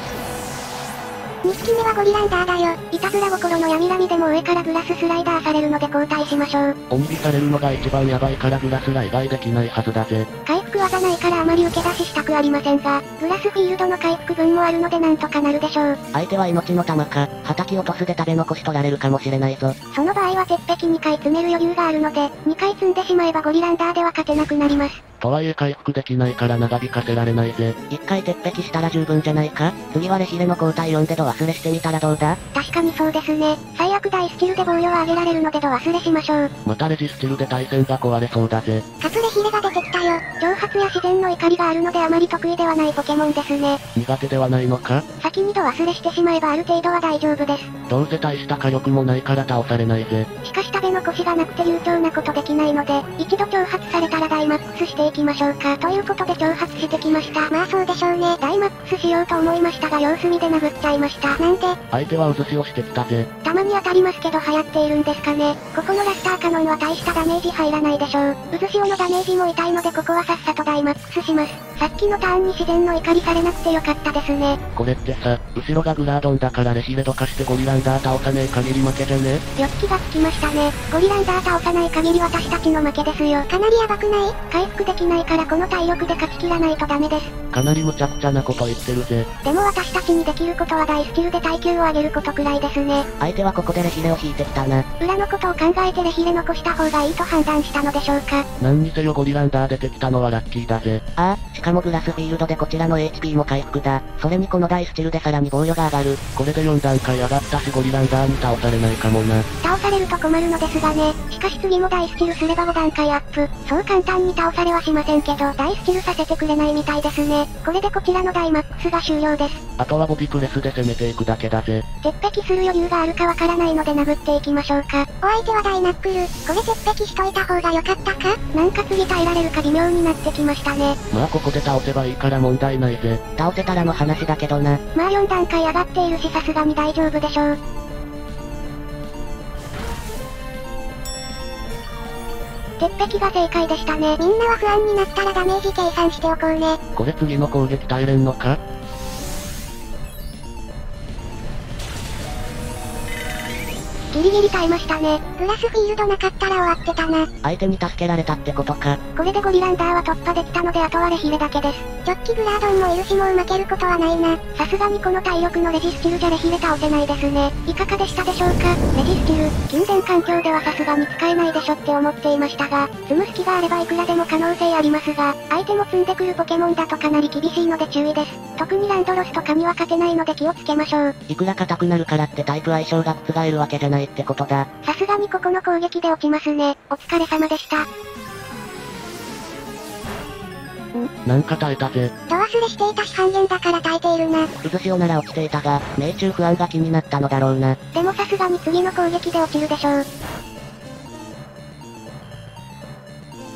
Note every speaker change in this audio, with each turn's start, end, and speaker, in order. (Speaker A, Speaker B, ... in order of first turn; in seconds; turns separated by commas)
Speaker A: 1.4-6.8, Speaker B: 6.9-10.3, Speaker A: 10.5-16.0, Speaker C: 16.1-19.8, Speaker A: 19.9-25.0, Speaker B: 25.2-27.8, Speaker C: 27.9-32.4, Speaker A: 32.5-36.5, Speaker B: 36.6-38.8, Speaker A: 39.0-43.8, Speaker B: 43.9-45.0, Speaker A: 45.2-47.7, Speaker B: 47.9-50.3, Speaker A: 50.4-61.8, Speaker B: 61.9-63.3, Speaker A: 63.4-74.6, Speaker B: 74.8-79.4, Speaker A: 79.6-87.3, Speaker B: 87.5-89.3, Speaker A: 89.4-93.1, Speaker C: 93.2-94.8, Speaker A: 95.0-98.5, Speaker B: 98.6-101.0, Speaker C: 101.2-106.2, Speaker B: 106.2-109.5, Speaker A: 109.6-119.6, Speaker B: 119.8-121.8, Speaker A: 122.0-131.0, Speaker B: 131.1-133.3, Speaker C: 133.4-134.8, Speaker A: 134.9-137.6, Speaker A: 142.8-146.8, Speaker B: 147.0-148.6, Speaker A: 154.1-157.3, Speaker C: 157.4-159.0, Speaker A: 159.2-181.1, Speaker C: 181.3-184.7, Speaker A: 184.8-187.9, Speaker B: 191.2-192.1, Speaker A: 192.3-194.5, Speaker C: 194.6-197.8, Speaker A: 197.9-200.1